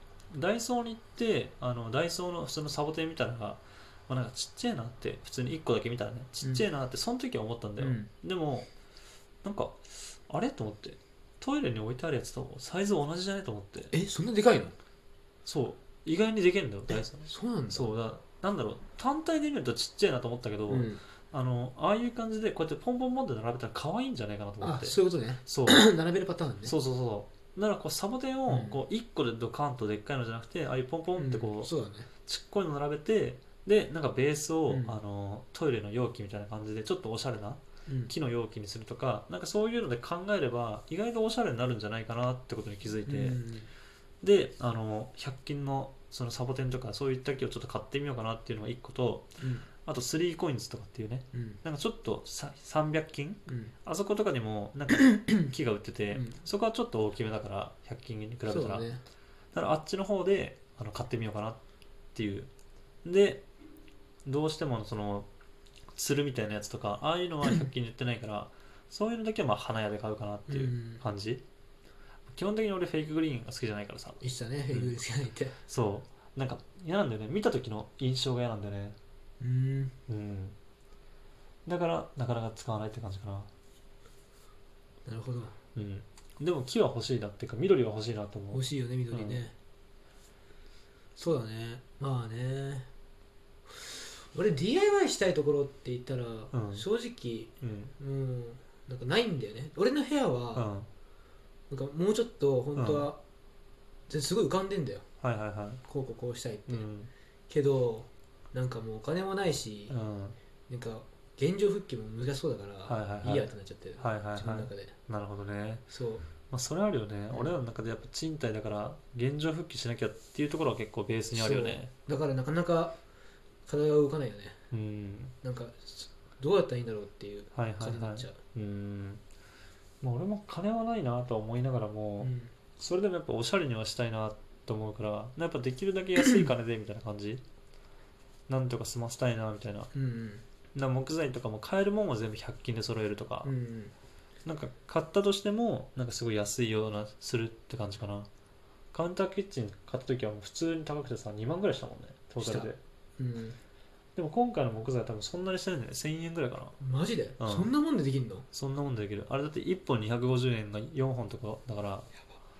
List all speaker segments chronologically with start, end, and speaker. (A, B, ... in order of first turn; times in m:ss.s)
0:00.3-0:08.7 A
0:07.8-0:08.1 B
0:09.4-0:13.9 A
0:13.9-0:14.8 B
0:15.4-0:25.9 A
0:16.9-0:17.9 B
0:20.7-0:21.0 B
0:24.6-0:26.7 B
0:26.6-0:31.7 A
0:28.5-0:28.8 B
0:31.2-0:32.1 B
0:32.2-0:43.4 A
0:34.7-0:35.0 B
0:37.9-0:38.1 B
0:43.0-0:43.7 B
0:44.2-0:49.3 A
0:49.4-0:49.7 B
0:49.8-0:58.8 A
0:51.3-0:51.6 B
0:53.5-0:53.7 B
0:56.1-0:56.4 B
0:58.5-0:59.0 B
0:59.5-1:01.6 A
1:02.1-1:02.5 A
1:03.0-1:03.4 A
1:04.2-1:05.3 A
1:05.9-1:11.4 A
1:10.5-1:11.0 B
1:12.3-1:14.2 A
1:14.2-1:15.6 B
1:15.7-1:19.0 A
1:19.4-1:20.0 B
1:20.1-1:20.6 A
1:21.6-1:23.5 A
1:25.0-1:25.6 B
1:25.7-1:29.4 A
1:28.5-1:29.5 B
1:31.2-1:32.9 B
1:33.7-1:40.7 B
1:36.5-1:36.8 A
1:37.6-1:37.9 A
1:40.5-1:40.9 A
1:41.7-1:43.2 B
1:42.8-1:43.1 A
1:44.1-1:45.0 B
1:45.2-1:45.8 A
1:45.8-1:46.9 B
1:46.7-1:47.1 A
1:47.5-1:50.0 B
1:49.9-1:50.4 A
1:50.7-1:54.9 B
1:52.8-1:55.8 A
1:55.9-1:56.3 B
1:56.5-2:01.9 A
2:01.3-2:03.0 B
2:03.7-2:04.6 B
2:04.7-2:05.3 A
2:05.4-2:08.4 B
2:07.5-2:09.2 A
2:10.0-2:17.4 A
2:12.2-2:12.5 B
2:18.5-2:19.9 A
2:19.9-2:20.4 B
2:20.7-2:23.5 A
2:23.4-2:23.9 B
2:24.4-2:28.3 A
2:28.9-2:32.8 A
2:32.4-2:33.6 B
2:34.2-2:36.8 A
2:36.8-2:38.4 B
2:37.4-2:37.7 A
2:38.5-2:42.1 A